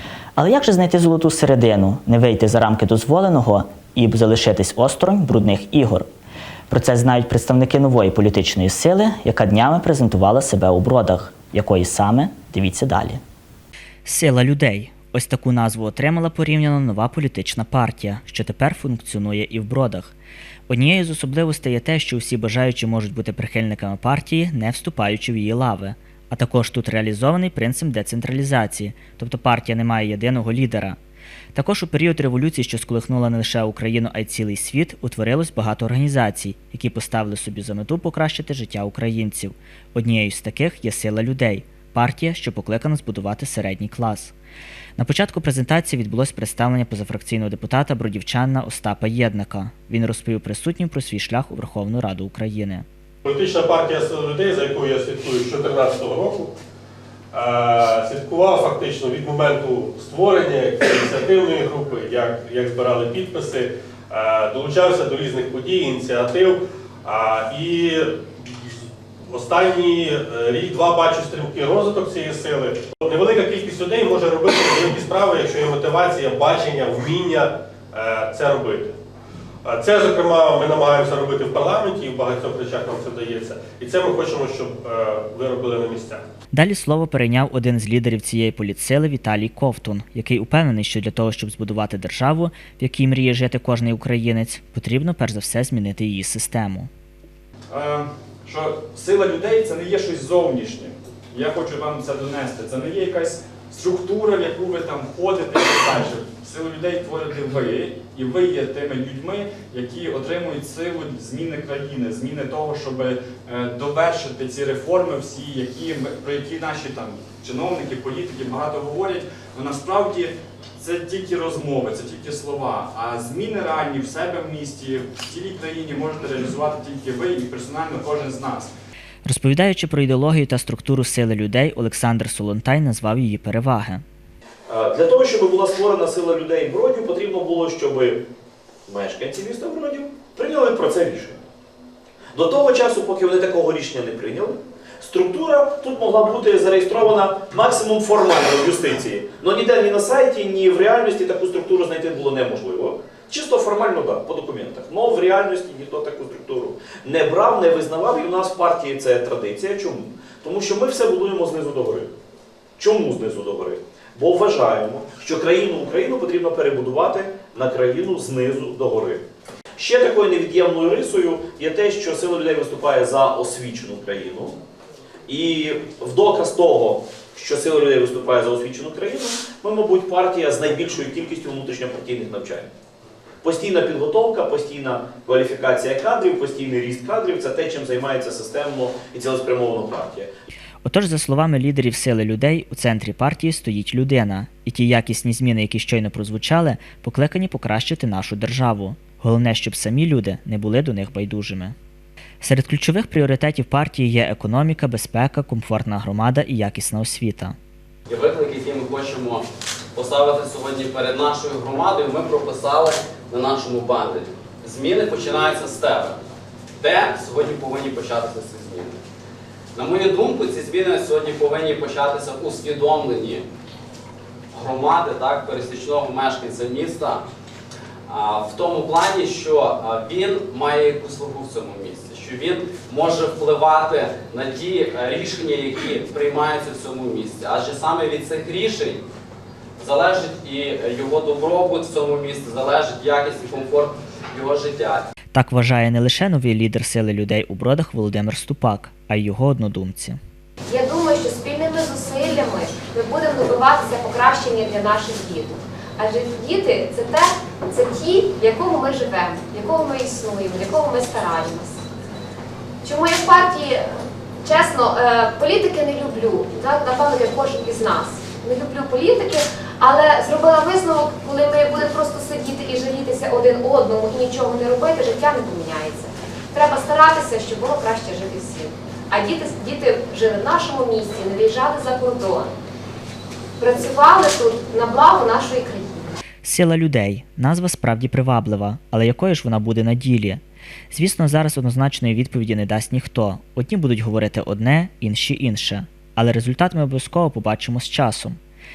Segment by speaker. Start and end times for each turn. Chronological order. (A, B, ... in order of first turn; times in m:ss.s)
0:00.4-0:06.1 A
0:06.7-0:13.2 A
0:14.0-0:20.2 A
0:20.7-0:31.0 A
0:31.5-0:44.3 A
0:45.0-0:52.8 A
0:53.2-0:56.5 B
0:57.3-1:08.7 B
1:09.3-1:19.0 B
1:19.6-1:26.2 B
1:26.5-1:36.9 A
1:37.7-2:08.7 C
2:09.2-2:14.0 A
2:14.7-2:18.2 D
2:18.9-2:21.4 D
2:22.3-2:42.1 D
2:42.8-2:49.2 D
2:49.8-2:54.6 D
2:55.3-3:02.7 D
3:03.4-3:10.3 D
3:10.8-3:21.8 A
3:22.4-3:27.6 A
3:28.1-3:36.2 E
3:36.8-3:39.0 E
3:39.7-3:43.4 E
3:44.5-3:47.2 E
3:48.1-3:59.0 E
3:59.8-4:05.0 E
4:05.3-4:10.2 A
4:10.7-4:21.8 F
4:22.8-4:42.5 F
4:43.6-4:46.2 F
4:46.4-4:58.4 A